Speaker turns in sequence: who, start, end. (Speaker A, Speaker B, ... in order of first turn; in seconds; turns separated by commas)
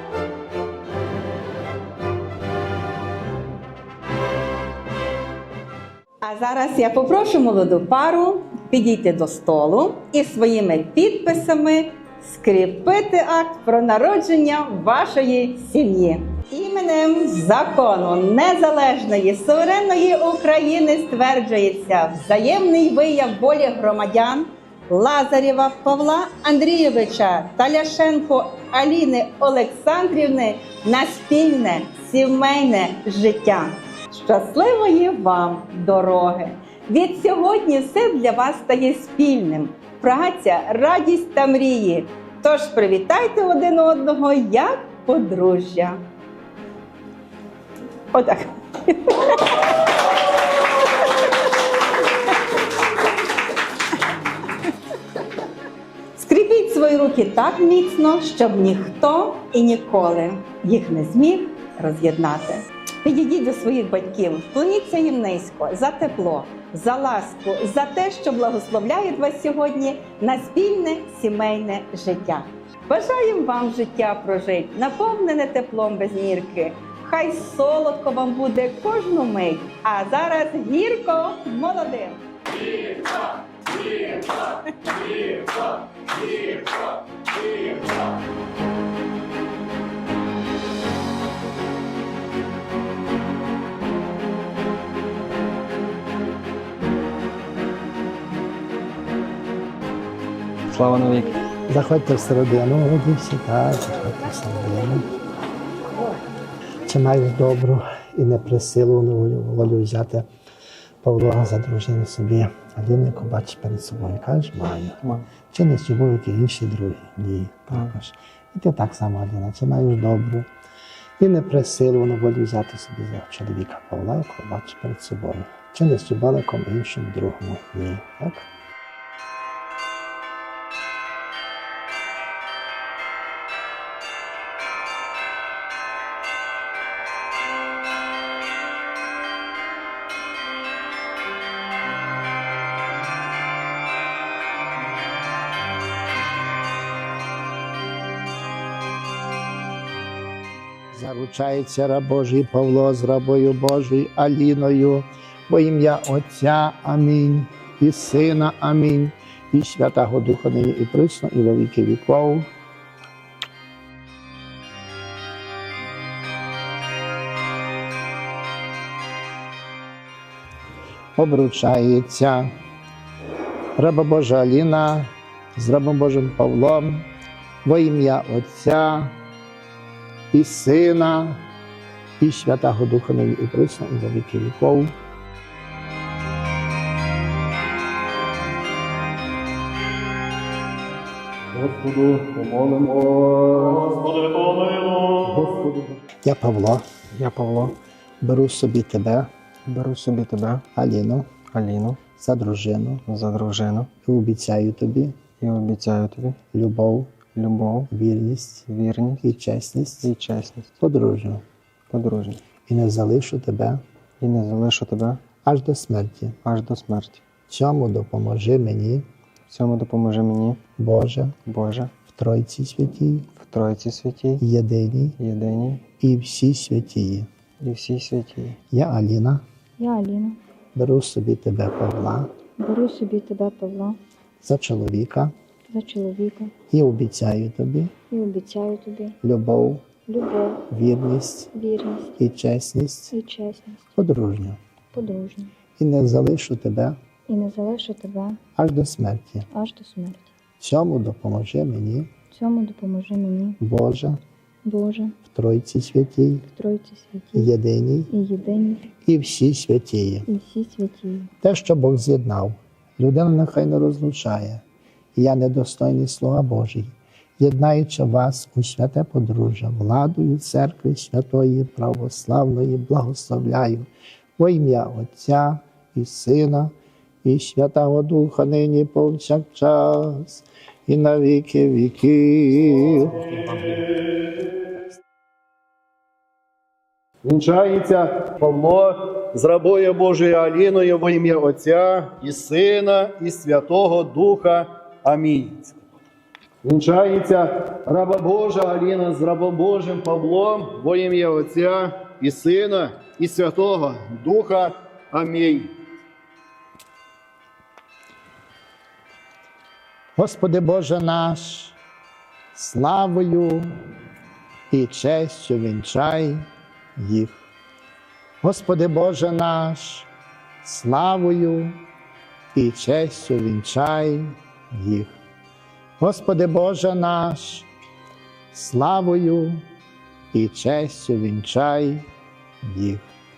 Speaker A: 6.2-46.0, Speaker A: 48.1-49.6, Speaker A: 56.1-83.1, Speaker A: 83.8-84.1, Speaker B: 100.7-101.4, Speaker C: 101.7-105.1, Speaker C: 106.9-110.3, Speaker C: 111.0-120.5, Speaker C: 121.2-128.5, Speaker C: 150.9-162.5, Speaker C: 171.2-172.5, Speaker C: 173.8-177.1, Speaker C: 177.7-179.1, Speaker C: 180.3-181.4, Speaker C: 182.2-184.9, Speaker D: 191.5-196.0, Speaker C: 196.2-196.9, Speaker B: 197.1-197.8, Speaker C: 198.2-199.3, Speaker B: 199.7-200.7, Speaker C: 200.8-201.3, Speaker B: 201.5-202.0, Speaker C: 202.2-203.0, Speaker B: 203.1-203.9, Speaker C: 204.1-205.2, Speaker B: 205.4-206.4, Speaker C: 206.5-207.2, Speaker B: 207.3-207.9, Speaker C: 207.9-208.7, Speaker B: 208.7-209.3, Speaker C: 209.2-210.1, Speaker B: 210.0-210.8, Speaker C: 210.8-211.4, Speaker B: 211.9-212.4, Speaker C: 212.7-213.8, Speaker B: 214.2-215.2, Speaker C: 215.4-216.4, Speaker B: 216.4-217.2, Speaker C: 217.5-219.1, Speaker B: 219.5-220.6, Speaker C: 220.8-221.4, Speaker B: 221.5-221.9, Speaker C: 222.1-223.3, Speaker B: 223.4-224.4, Speaker C: 224.4-225.2, Speaker B: 225.2-225.8, Speaker C: 226.0-227.3, Speaker B: 227.6-228.6, Speaker C: 228.7-229.4, Speaker E: 229.8-230.4, Speaker C: 230.8-232.3, Speaker E: 232.6-234.0, Speaker C: 234.4-235.3, Speaker E: 235.7-236.6, Speaker C: 236.7-237.9, Speaker E: 238.1-239.2, Speaker C: 239.2-239.9, Speaker E: 240.1-240.6, Speaker C: 240.7-241.5, Speaker E: 241.5-242.2, Speaker C: 242.2-243.1, Speaker E: 243.1-243.9, Speaker C: 243.9-244.6, Speaker E: 244.9-245.5, Speaker C: 245.8-247.0, Speaker E: 247.3-248.4, Speaker C: 248.6-249.5, Speaker E: 249.5-250.3, Speaker C: 250.6-252.1, Speaker E: 252.3-253.6, Speaker C: 253.6-254.2, Speaker E: 254.7-255.2, Speaker C: 255.3-256.4, Speaker E: 256.4-257.5, Speaker C: 257.3-258.1, Speaker E: 258.1-258.9, Speaker C: 259.1-260.3, Speaker E: 260.3-261.3, Speaker C: 261.4-264.6, Speaker C: 265.2-276.7, Speaker C: 277.2-283.4, Speaker D: 283.3-283.7, Speaker D: 287.2-295.8, Speaker D: 296.6-305.7, Speaker C: 310.2-311.8, Speaker C: 312.5-313.7, Speaker C: 314.7-316.4, Speaker C: 317.0-317.4, Speaker C: 318.4-320.1, Speaker C: 320.6-321.8, Speaker C: 322.5-325.1, Speaker C: 326.0-327.7, Speaker C: 328.5-329.6, Speaker C: 330.3-332.1, Speaker C: 332.6-333.1